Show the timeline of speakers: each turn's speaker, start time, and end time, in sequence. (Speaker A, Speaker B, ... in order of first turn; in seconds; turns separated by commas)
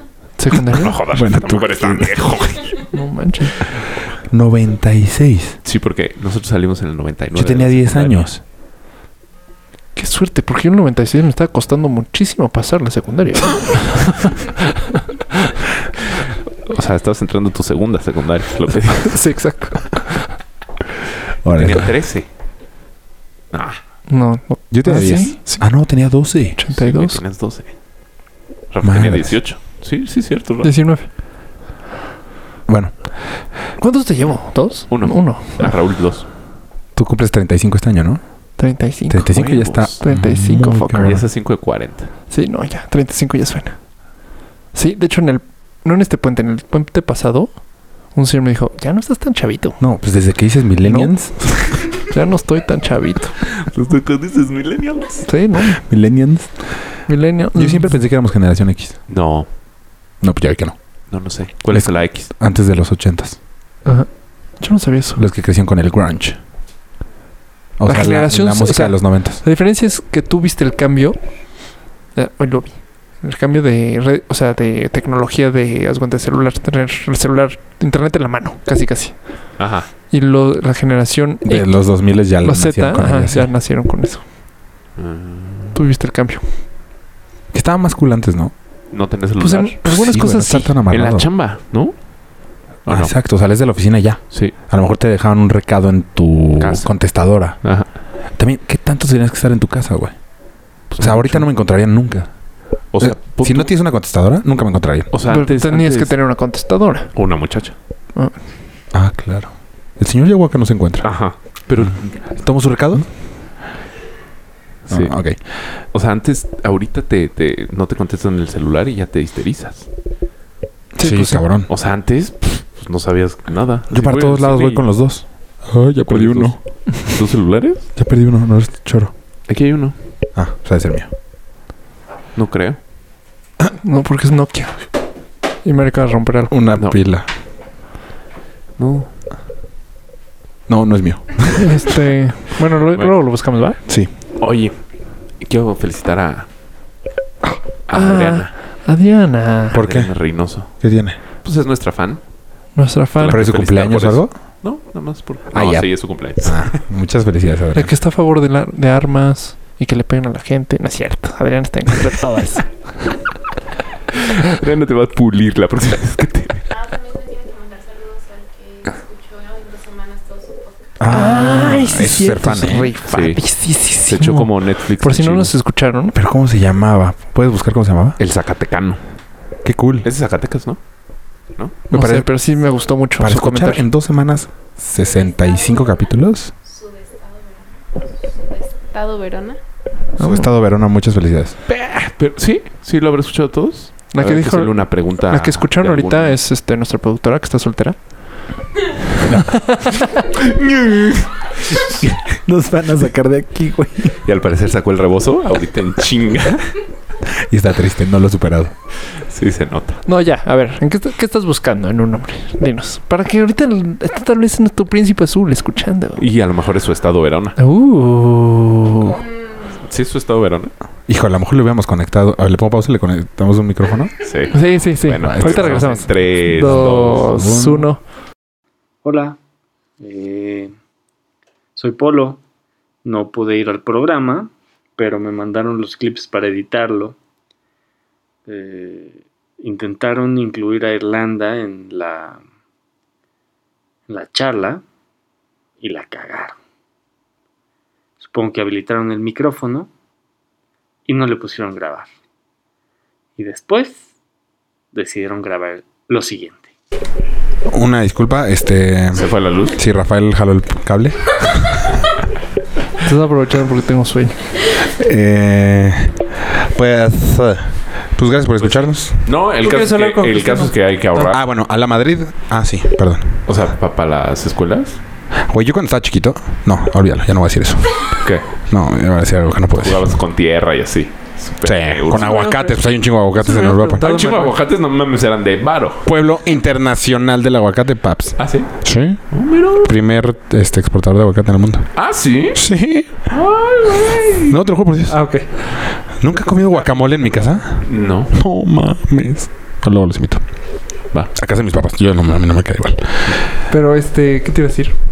Speaker A: 0.4-1.0, Speaker B: 0.7-2.8, Speaker C: 1.1-2.4, Speaker A: 2.9-3.6, Speaker C: 4.3-5.6, Speaker B: 5.7-8.3, Speaker C: 7.3-8.4, Speaker A: 9.9-14.6, Speaker B: 16.7-19.2, Speaker A: 19.1-20.3, Speaker C: 21.4-21.9, Speaker B: 21.5-22.3, Speaker B: 23.5-23.8, Speaker A: 24.1-26.0, Speaker C: 24.7-26.6, Speaker A: 26.6-27.2, Speaker B: 26.7-27.7, Speaker B: 28.7-30.7, Speaker C: 28.8-29.4, Speaker A: 30.6-31.1, Speaker C: 32.7-33.0, Speaker A: 33.8-35.8, Speaker B: 34.9-36.3, Speaker C: 37.0-38.2, Speaker A: 38.6-39.4, Speaker C: 39.1-41.3, Speaker B: 39.3-40.0, Speaker A: 40.0-41.2, Speaker B: 41.0-42.1, Speaker A: 42.3-43.8, Speaker A: 44.7-49.8, Speaker C: 49.8-51.7, Speaker A: 50.9-53.4, Speaker B: 53.5-55.3, Speaker A: 55.2-55.8, Speaker C: 55.7-56.9, Speaker A: 57.1-58.0, Speaker C: 57.5-59.0, Speaker B: 59.1-59.5, Speaker C: 60.2-60.8, Speaker B: 61.1-62.3, Speaker C: 61.7-63.4, Speaker A: 63.9-65.2, Speaker C: 65.2-66.4, Speaker C: 67.8-69.4, Speaker A: 67.8-84.2, Speaker B: 79.6-79.9, Speaker C: 81.4-83.5, Speaker B: 85.0-85.8, Speaker A: 85.7-86.4, Speaker C: 87.5-88.5, Speaker B: 88.9-89.8, Speaker A: 89.4-90.8, Speaker C: 89.9-91.3, Speaker B: 90.9-92.0, Speaker B: 92.9-93.1, Speaker C: 92.9-97.6, Speaker B: 96.6-97.9, Speaker C: 98.4-100.2, Speaker B: 100.9-101.5, Speaker C: 101.0-102.3, Speaker B: 102.9-103.7, Speaker C: 103.0-105.1, Speaker B: 105.1-106.2, Speaker A: 105.3-107.1, Speaker B: 107.1-107.7, Speaker C: 108.9-111.1, Speaker B: 111.0-112.1, Speaker C: 111.9-113.2, Speaker C: 114.9-115.4, Speaker B: 114.9-119.9, Speaker A: 121.0-121.5, Speaker C: 121.0-121.7, Speaker B: 121.7-124.9, Speaker C: 123.9-126.6, Speaker B: 126.1-127.9, Speaker C: 128.0-129.1, Speaker B: 129.5-130.0, Speaker C: 130.3-131.1, Speaker B: 132.3-132.8, Speaker A: 133.6-134.8, Speaker A: 135.6-136.5, Speaker C: 136.5-137.3, Speaker B: 138.8-139.1, Speaker C: 140.7-142.0, Speaker A: 141.6-143.8, Speaker B: 144.4-144.8, Speaker B: 145.4-146.5, Speaker B: 147.9-148.5, Speaker A: 147.9-149.8, Speaker B: 149.7-150.9, Speaker C: 149.7-151.2, Speaker B: 151.4-152.2, Speaker A: 152.8-153.4, Speaker B: 153.2-156.8, Speaker C: 153.3-154.3, Speaker C: 155.5-157.9, Speaker A: 157.7-162.9, Speaker B: 164.1-166.7, Speaker D: 166.7-171.1, Speaker C: 171.0-172.9, Speaker A: 171.1-176.2, Speaker B: 173.1-175.6, Speaker C: 176.1-178.2, Speaker B: 178.2-179.0, Speaker C: 179.6-180.1, Speaker B: 180.0-180.8, Speaker C: 181.9-182.3, Speaker A: 181.9-183.8, Speaker C: 183.2-186.5, Speaker D: 185.2-185.9, Speaker D: 186.7-189.6, Speaker A: 190.2-190.5, Speaker C: 190.2-191.6, Speaker B: 191.7-196.4, Speaker A: 194.1-198.2, Speaker C: 199.3-199.9, Speaker B: 200.7-201.3, Speaker C: 201.9-204.2, Speaker B: 204.2-206.7, Speaker C: 207.4-208.7, Speaker B: 209.2-210.0, Speaker A: 210.1-216.3, Speaker B: 216.2-217.6, Speaker A: 217.6-219.2, Speaker B: 219.6-220.7, Speaker C: 221.1-224.2, Speaker B: 224.2-227.4, Speaker A: 224.5-228.0, Speaker C: 225.2-225.9, Speaker C: 226.6-227.9, Speaker E: 229.0-229.4, Speaker E: 230.0-230.7, Speaker E: 231.8-232.4, Speaker E: 233.0-237.2, Speaker E: 238.5-242.4, Speaker E: 244.1-244.8, Speaker E: 245.8-246.6, Speaker E: 248.2-249.9, Speaker E: 251.1-252.1, Speaker E: 253.4-254.0, Speaker E: 254.9-256.7, Speaker C: 257.7-262.0, Speaker B: 259.1-259.8, Speaker A: 263.0-264.4, Speaker C: 264.9-269.3, Speaker B: 268.6-271.4, Speaker A: 269.6-271.3, Speaker C: 271.3-273.6, Speaker B: 273.5-275.0, Speaker C: 275.5-278.1, Speaker C: 278.7-280.2, Speaker B: 279.8-282.4, Speaker C: 281.6-284.1, Speaker A: 282.1-282.8, Speaker A: 283.4-284.6, Speaker B: 284.0-286.1, Speaker C: 286.1-292.0, Speaker B: 288.4-289.9, Speaker B: 291.9-292.7, Speaker C: 292.5-293.3, Speaker B: 293.3-294.6, Speaker C: 294.5-300.4, Speaker A: 295.1-297.6, Speaker B: 297.8-298.3, Speaker C: 301.3-303.4, Speaker A: 303.7-304.9